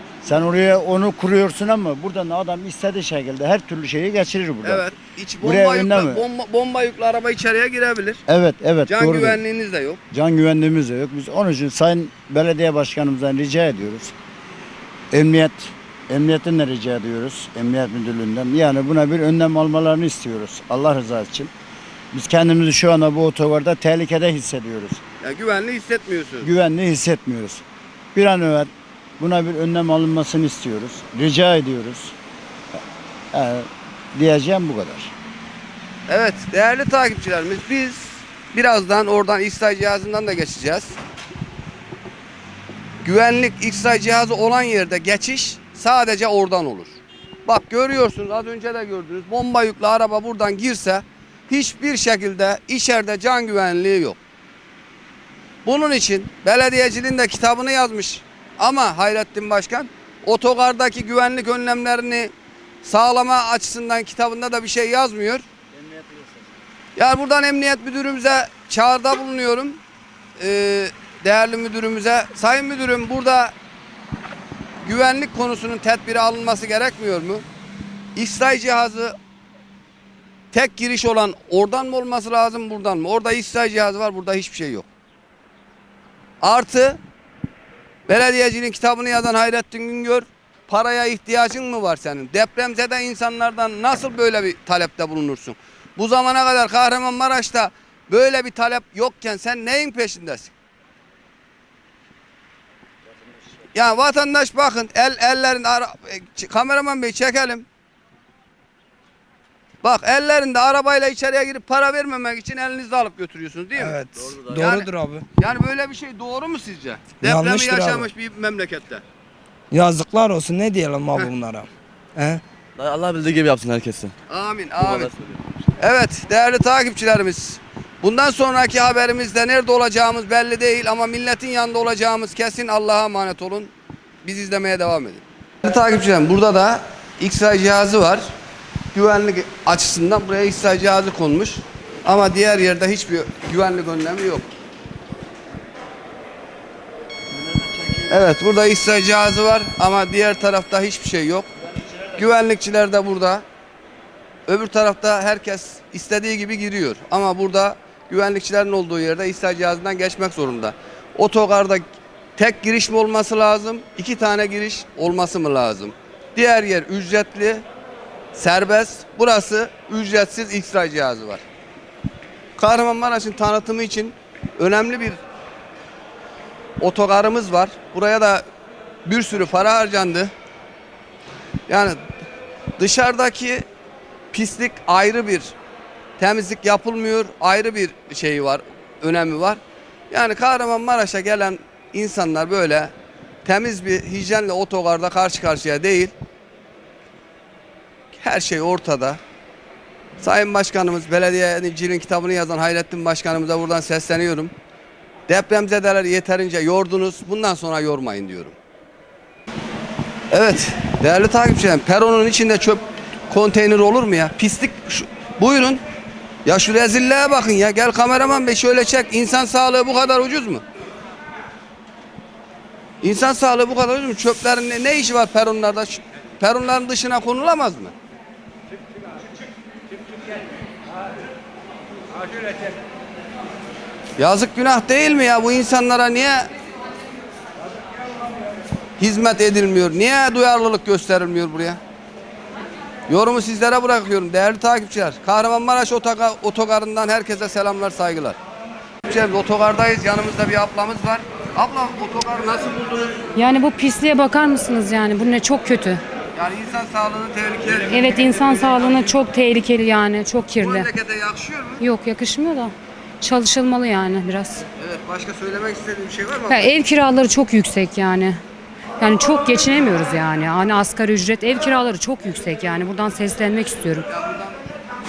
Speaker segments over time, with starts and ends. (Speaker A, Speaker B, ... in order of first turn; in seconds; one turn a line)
Speaker A: 0.2-4.8
Speaker B: 4.6-8.2
Speaker A: 5.4-6.2
Speaker A: 8.3-9.4
Speaker B: 8.9-10.0
Speaker A: 10.1-14.1
Speaker A: 15.1-21.5
Speaker A: 22.1-25.0
Speaker B: 25.2-26.5
Speaker A: 26.4-27.6
Speaker A: 28.1-32.1
Speaker A: 33.3-35.1
Speaker B: 36.1-41.0
Speaker B: 43.0-54.2
Speaker B: 55.6-65.4
Speaker A: 66.0-66.3
Speaker B: 67.0-69.8
Speaker B: 70.4-73.5
Speaker B: 74.8-77.4
Speaker B: 78.2-79.2
Speaker B: 80.5-84.8
Speaker B: 86.4-87.0
Speaker B: 88.1-100.5
Speaker B: 103.7-107.7
Speaker B: 109.8-119.0
Speaker C: 113.8-115.2
Speaker D: 114.2-114.6
Speaker C: 117.2-118.1
Speaker C: 119.7-122.4
Speaker D: 122.8-124.1
Speaker B: 124.3-125.1
Speaker D: 124.8-125.4
Speaker B: 125.8-133.7
Speaker B: 134.2-138.3
Speaker B: 138.9-144.5
Speaker A: 147.6-148.0
Speaker B: 148.1-151.5
Speaker B: 152.1-153.4
Speaker B: 154.5-161.9
Speaker B: 162.4-167.6
Speaker B: 168.3-171.4
Speaker B: 172.6-175.2
Speaker B: 176.8-178.4
Speaker B: 179.1-180.3
Speaker B: 181.7-182.0
Speaker B: 182.8-183.6
Speaker B: 184.3-185.6
Speaker B: 186.2-189.6
Speaker B: 190.1-192.9
Speaker B: 193.4-196.1
Speaker B: 198.1-199.2
Speaker B: 200.2-204.5
Speaker B: 205.3-208.6
Speaker B: 210.3-215.8
Speaker B: 216.4-220.6
Speaker B: 223.0-227.9
Speaker B: 234.2-236.5
Speaker B: 239.0-241.8
Speaker B: 243.1-248.4
Speaker B: 249.1-253.3
Speaker E: 253.3-256.0
Speaker B: 256.4-259.2
Speaker E: 257.9-260.9
Speaker B: 260.6-261.8
Speaker E: 261.8-264.6
Speaker B: 264.8-266.7
Speaker E: 266.5-268.4
Speaker E: 269.0-274.1
Speaker B: 274.1-274.6